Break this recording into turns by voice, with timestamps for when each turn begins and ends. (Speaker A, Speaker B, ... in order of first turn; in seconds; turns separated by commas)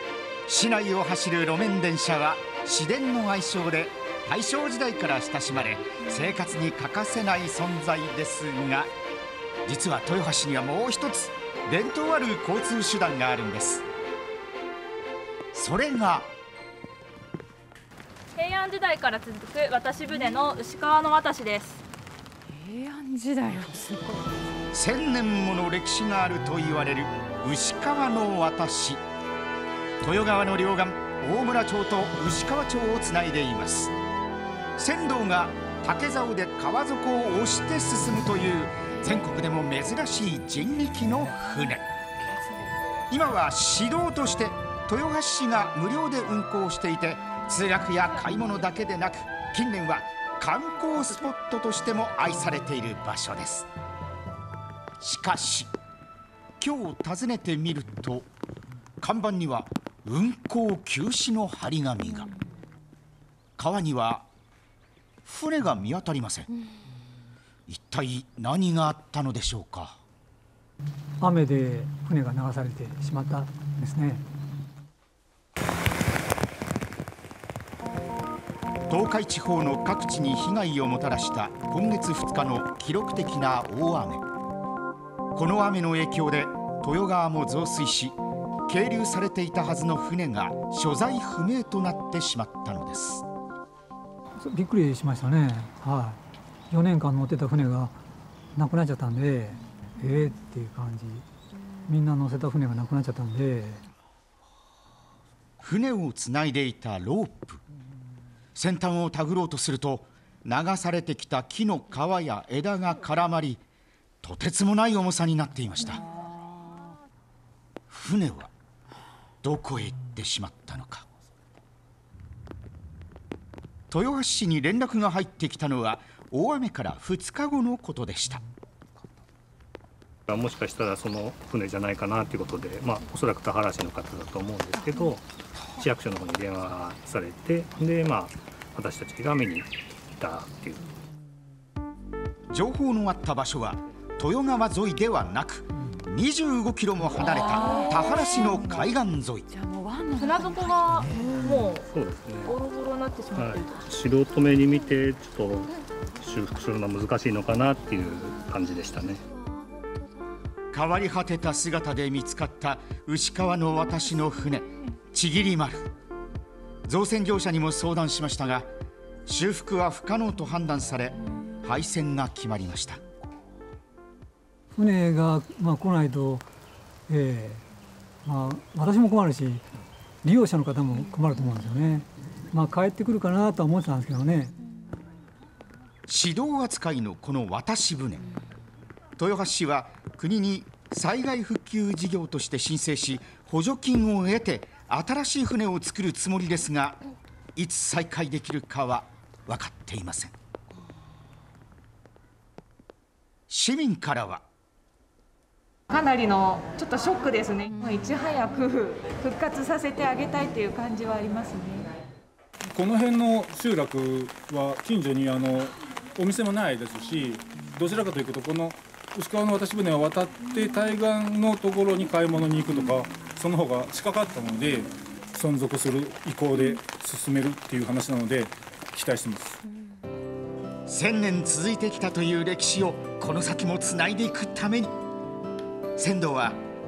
Speaker A: 0.5-8.9, Speaker A: 9.7-13.8, Speaker A: 15.5-16.3, Speaker B: 18.4-21.8, Speaker C: 22.5-24.5, Speaker A: 24.7-29.0, Speaker A: 30.0-33.9, Speaker A: 34.8-41.9, Speaker A: 43.1-53.7, Speaker A: 55.0-55.7, Speaker A: 56.6-58.2, Speaker A: 59.0-62.3, Speaker A: 63.6-64.3, Speaker A: 65.2-66.5, Speaker A: 67.7-70.0, Speaker D: 71.2-74.2, Speaker A: 78.9-84.2, Speaker A: 85.3-93.2, Speaker D: 94.4-96.2, Speaker D: 96.7-97.9, Speaker D: 98.5-101.2, Speaker D: 101.8-103.8, Speaker A: 105.6-107.6, Speaker A: 108.5-113.6, Speaker A: 114.2-116.0, Speaker A: 117.9-118.5, Speaker A: 119.4-121.1, Speaker A: 123.9-128.4, Speaker E: 130.3-140.9, Speaker A: 142.5-149.5, Speaker B: 147.6-148.0, Speaker C: 149.6-151.2, Speaker B: 150.2-151.8, Speaker E: 151.4-152.6, Speaker B: 152.4-153.7, Speaker E: 153.3-159.2, Speaker A: 160.7-165.8, Speaker A: 166.8-168.7, Speaker A: 169.2-173.0, Speaker D: 174.7-176.4, Speaker D: 177.1-177.6, Speaker D: 178.2-179.7, Speaker D: 180.2-184.5, Speaker A: 186.1-188.3, Speaker A: 189.2-197.0, Speaker A: 197.6-200.3, Speaker A: 203.5-204.4, Speaker F: 205.9-211.9, Speaker G: 212.7-229.6, Speaker A: 230.9-235.0, Speaker A: 236.0-236.6